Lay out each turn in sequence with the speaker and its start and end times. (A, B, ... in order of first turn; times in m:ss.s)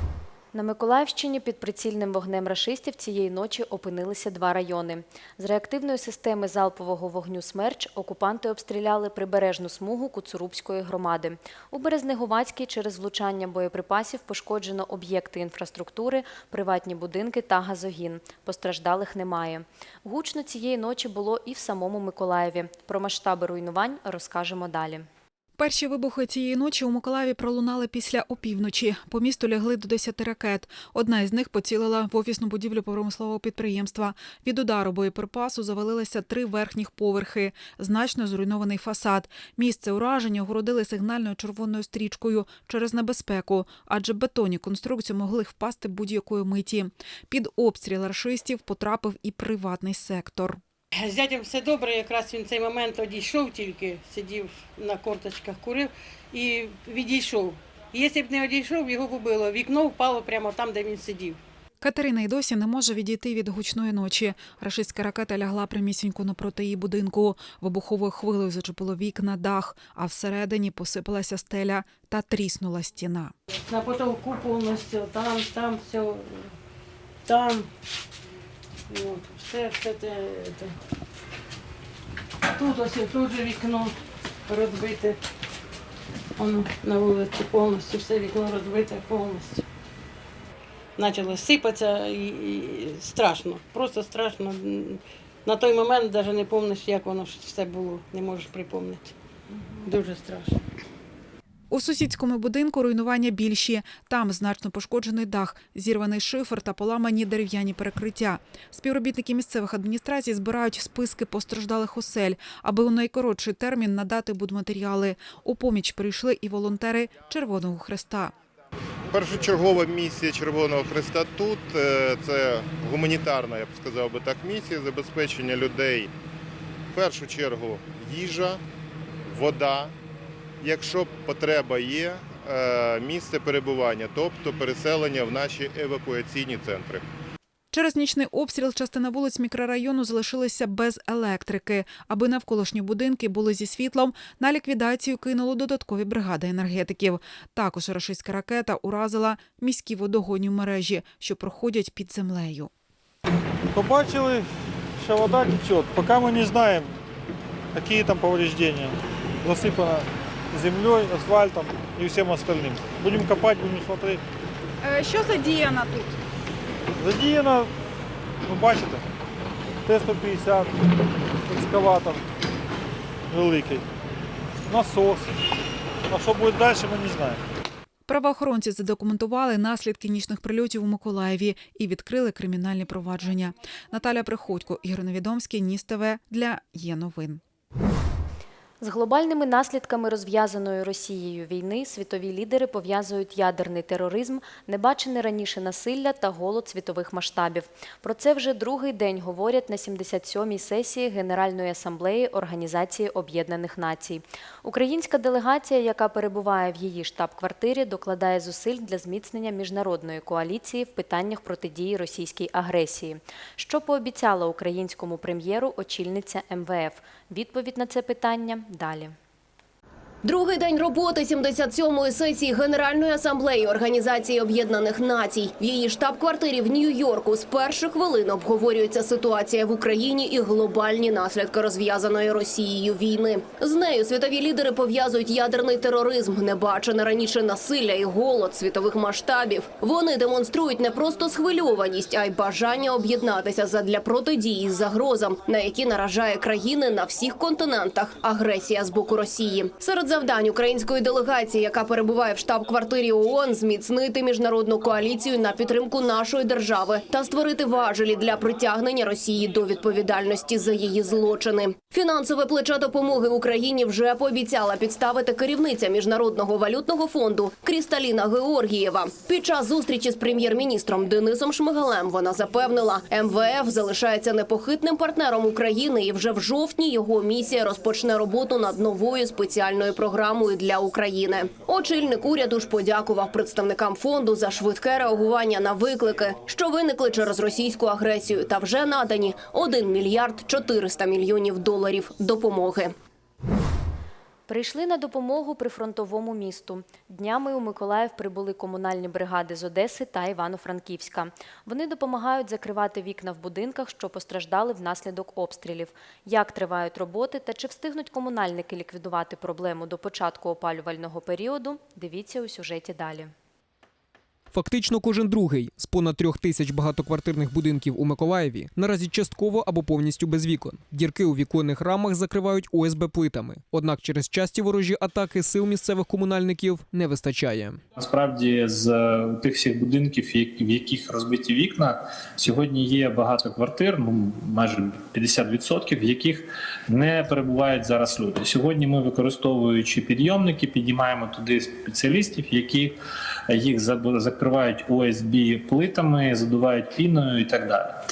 0:00.5-0:25.1 A
0:25.6-0:50.6 B
0:50.9-1:01.4 C
1:01.8-1:13.3 B
1:13.6-1:16.5 C
1:17.2-1:17.7 C
1:18.9-1:20.8 C
1:22.5-1:23.9 C
1:24.5-1:25.2 C
1:26.4-1:29.6 C
1:31.0-1:40.6 C
1:41.7-1:58.3 B
1:59.1-2:06.1 D
2:06.9-2:08.6 D
2:09.3-2:09.9 D
2:10.6-2:17.0 D
2:17.7-2:32.7 B
2:33.8-2:34.4 E
2:35.0-2:36.8 E
2:37.8-2:38.9 E
2:39.4-2:40.0 E
2:40.6-2:44.1 E
2:44.8-2:46.1 B
2:47.0-2:47.4 E
2:49.9-2:50.6 E
2:51.6-2:51.9 E
2:53.3-2:53.8 E
2:54.7-2:55.1 E
2:56.1-2:57.3 E
2:58.0-3:07.4 B
3:08.8-3:39.1 A
3:40.2-4:52.9 F
4:54.5-5:13.3 A
5:14.5-5:27.8 G
5:28.0-5:43.0 H
5:43.5-5:48.0 H